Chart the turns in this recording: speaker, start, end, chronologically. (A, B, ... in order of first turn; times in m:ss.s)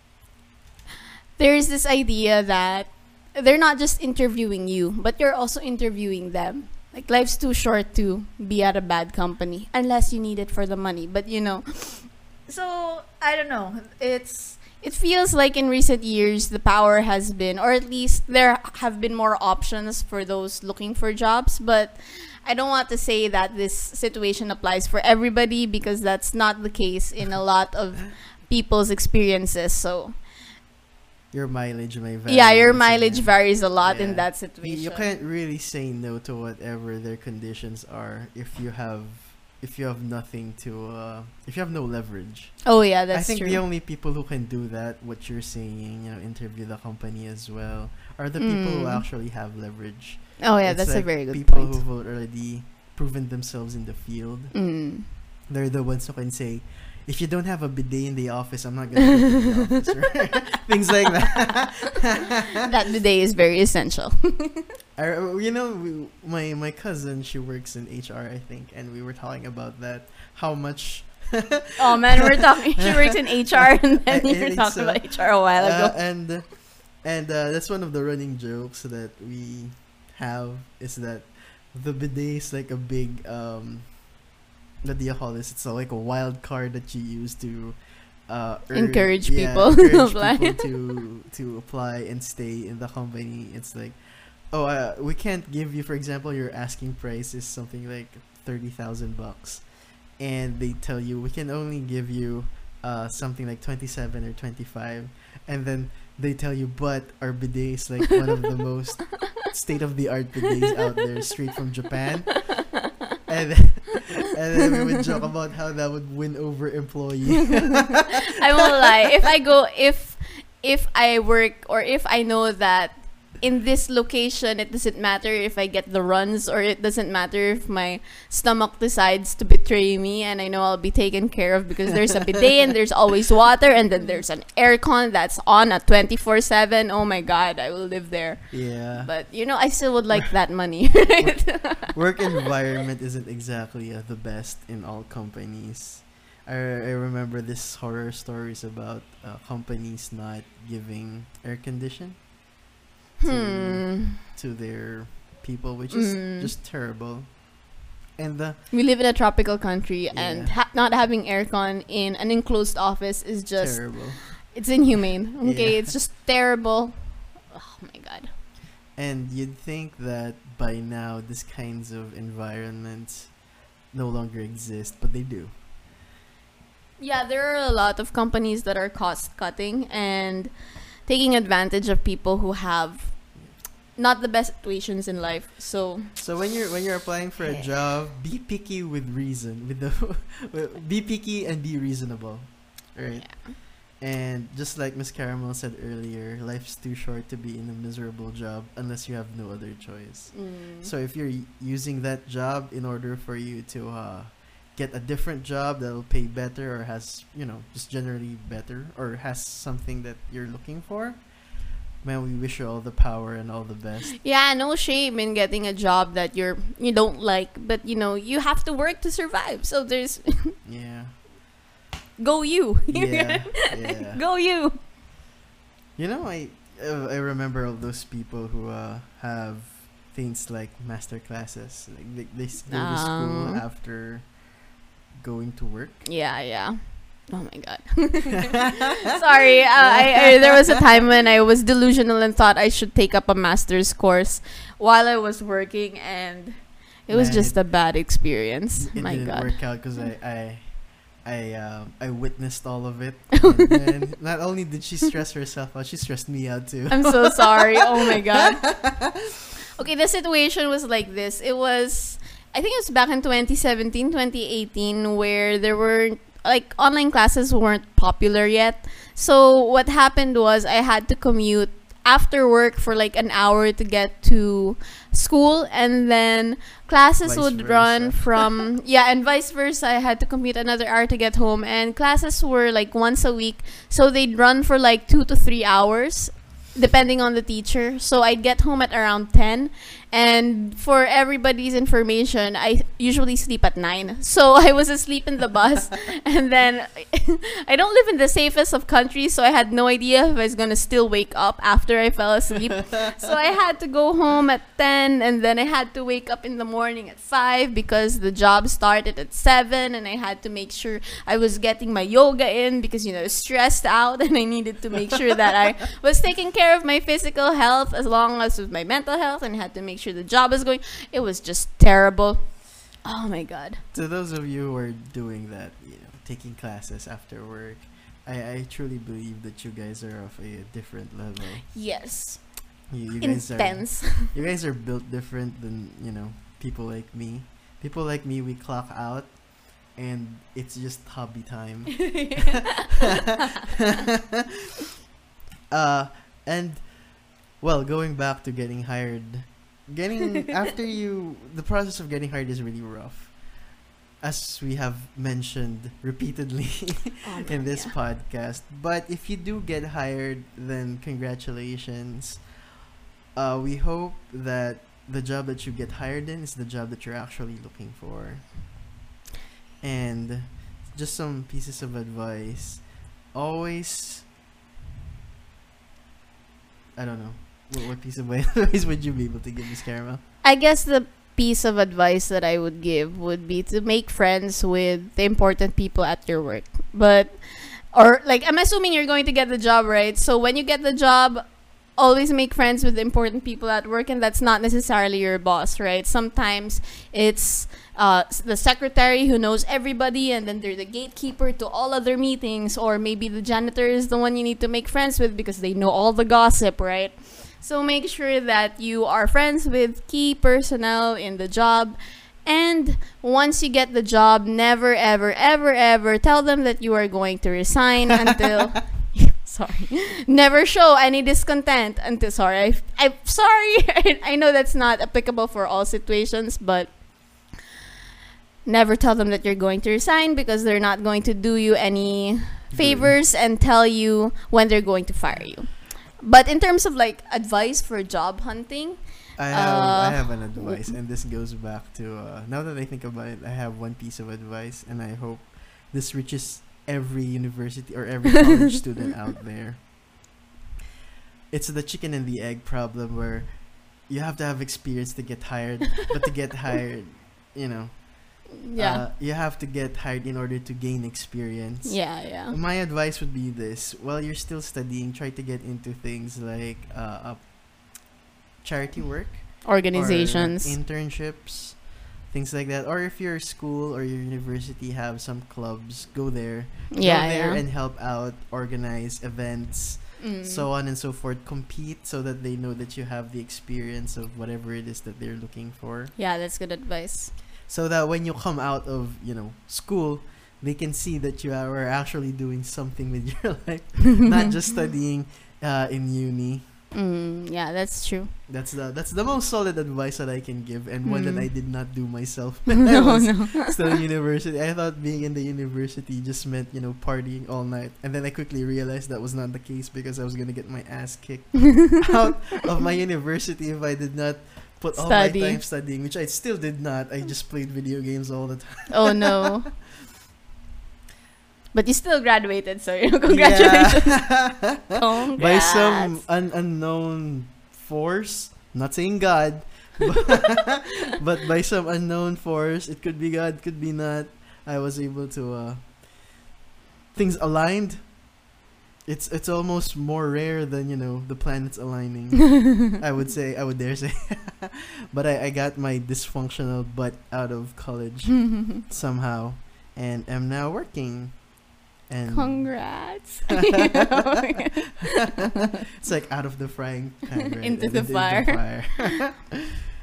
0:01.4-0:30.2 A
0:31.3-0:54.7 B
0:32.3-0:35.1 A
0:42.6-0:43.6 A
0:48.4-0:49.0 A
0:50.4-0:51.8 A
0:54.5-0:55.1 A
0:55.5-1:02.3 B
1:02.6-1:04.6 A
1:05.0-1:24.2 B
1:11.8-1:16.3 A
1:24.8-1:58.0 B
1:28.7-1:30.7 A
1:58.3-2:22.4 A
2:18.5-2:19.6 B
2:21.2-2:32.3 B
2:33.2-2:34.2 A
2:33.2-2:38.6 B
2:35.9-2:36.5 A
2:38.7-2:48.3 A
2:40.1-2:40.5 B
2:43.6-2:44.5 B
2:45.4-2:46.0 B
2:48.9-2:55.6 B
2:57.0-3:00.5 A
3:01.0-3:06.1 A
3:06.2-3:34.2 B
3:07.4-3:07.7 A
3:13.2-3:13.6 A
3:20.3-3:20.9 A
3:34.2-3:40.5 A
3:40.6-3:41.2 B
3:42.2-3:44.8 A
3:42.9-3:44.2 B
3:46.0-3:54.6 B
3:52.7-3:53.6 A
3:55.1-3:56.0 B
3:56.0-4:10.1 A
3:59.8-4:00.8 B
4:07.1-4:19.0 B
4:16.9-4:18.9 A
4:19.8-5:23.8 A
4:37.2-4:38.5 B
5:23.9-5:31.7 B
5:31.7-5:34.4 A
5:32.9-5:42.5 B
5:42.0-5:43.0 A
5:45.7-6:02.5 B
5:57.2-5:58.0 A
6:03.3-6:08.7 B
6:09.8-6:14.3 B
6:16.9-6:20.2 B
6:20.4-7:07.5 A
7:08.6-7:20.9 A
7:12.7-7:13.2 B
7:19.4-7:30.0 B
7:31.5-8:06.1 B
7:38.6-7:39.0 A
7:41.8-7:42.6 A
7:49.6-7:50.8 A
7:56.9-7:57.6 A
8:00.2-8:00.7 A
8:06.2-8:07.4 A
8:07.7-8:16.7 B
8:16.9-8:18.3 A
8:18.5-8:39.4 B
8:21.0-8:21.5 A
8:22.9-8:23.8 A
8:34.9-8:35.6 A
8:38.9-8:39.7 A
8:41.7-8:46.2 A
8:43.2-8:56.5 B
8:57.1-8:58.2 B
8:59.0-9:13.3 B
9:12.3-9:15.3 A
9:16.0-9:19.6 B
9:17.6-9:19.1 A